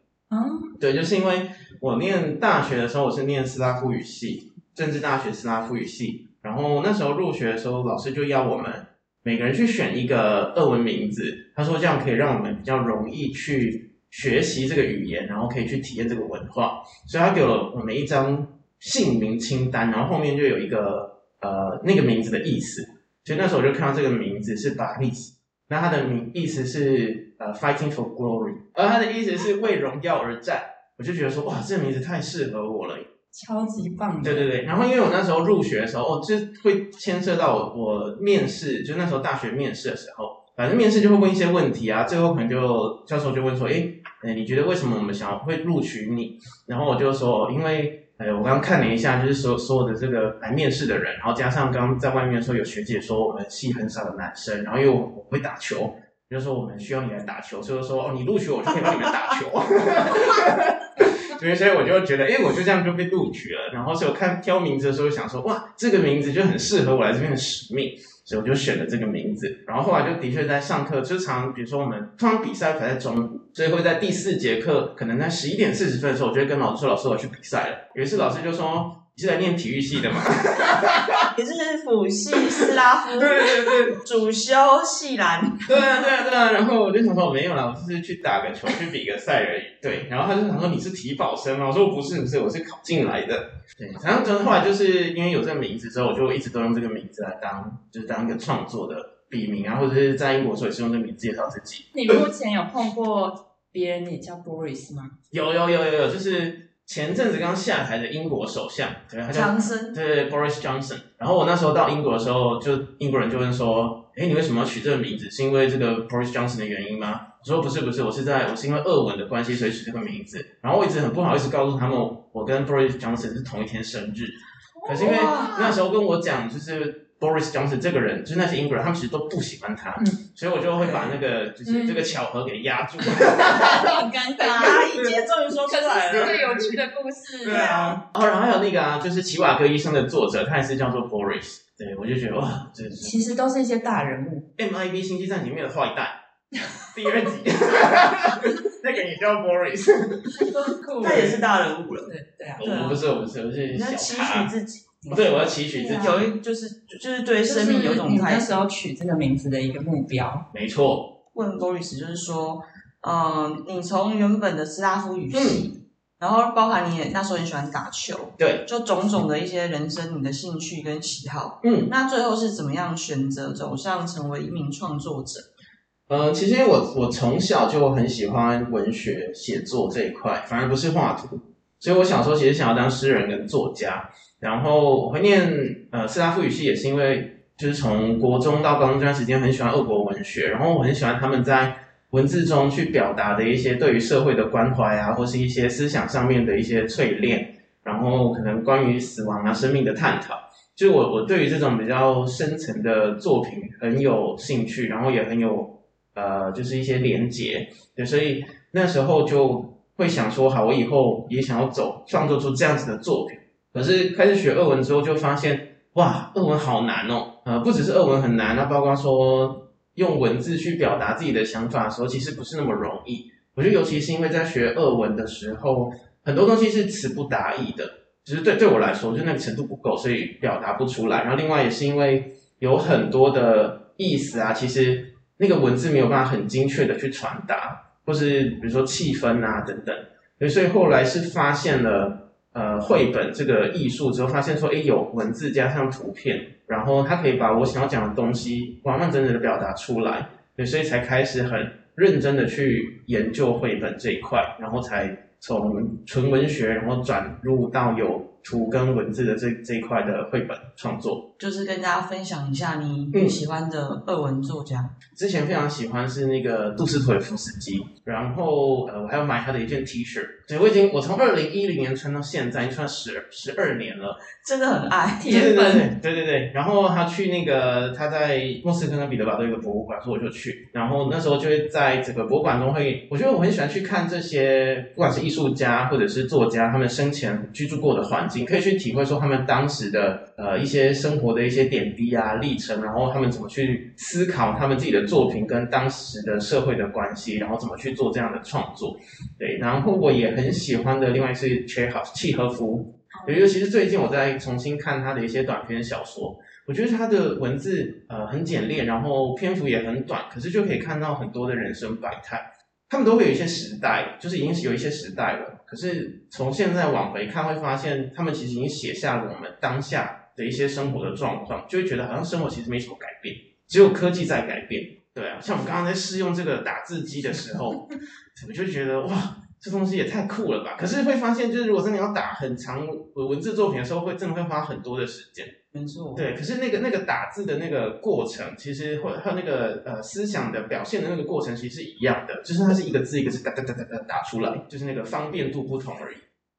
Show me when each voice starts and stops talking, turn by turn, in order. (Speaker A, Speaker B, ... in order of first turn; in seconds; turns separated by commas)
Speaker A: 0.3-0.7, Speaker B: 0.8-33.1, Speaker A: 33.3-34.5, Speaker B: 34.2-81.2, Speaker C: 81.3-85.6, Speaker B: 82.6-84.0, Speaker B: 85.7-101.9, Speaker A: 101.9-105.2, Speaker B: 105.3-133.9, Speaker C: 109.3-110.0, Speaker A: 124.8-125.5, Speaker C: 125.0-125.7, Speaker A: 131.7-132.0, Speaker A: 133.3-134.9, Speaker C: 134.4-136.4, Speaker A: 135.7-137.6, Speaker B: 136.1-136.8, Speaker C: 137.4-138.0, Speaker B: 137.4-143.1, Speaker A: 143.0-144.4, Speaker B: 144.6-146.1, Speaker B: 146.9-150.4, Speaker A: 150.4-151.4, Speaker B: 151.0-151.4, Speaker C: 151.0-153.1, Speaker A: 152.1-152.6, Speaker B: 152.6-154.5, Speaker C: 153.7-155.3, Speaker A: 155.0-156.2, Speaker B: 155.1-156.2, Speaker C: 155.9-158.6, Speaker A: 157.4-160.4, Speaker B: 160.5-161.1, Speaker C: 161.3-175.5, Speaker B: 165.3-165.7, Speaker B: 168.4-168.6, Speaker B: 171.6-171.9, Speaker B: 176.1-261.2, Speaker C: 261.4-264.9, Speaker B: 263.1-263.4, Speaker B: 265.1-274.2, Speaker C: 274.4-275.4, Speaker A: 275.2-275.9, Speaker B: 275.3-335.5, Speaker A: 303.1-303.4, Speaker C: 335.7-336.2, Speaker B: 336.1-346.2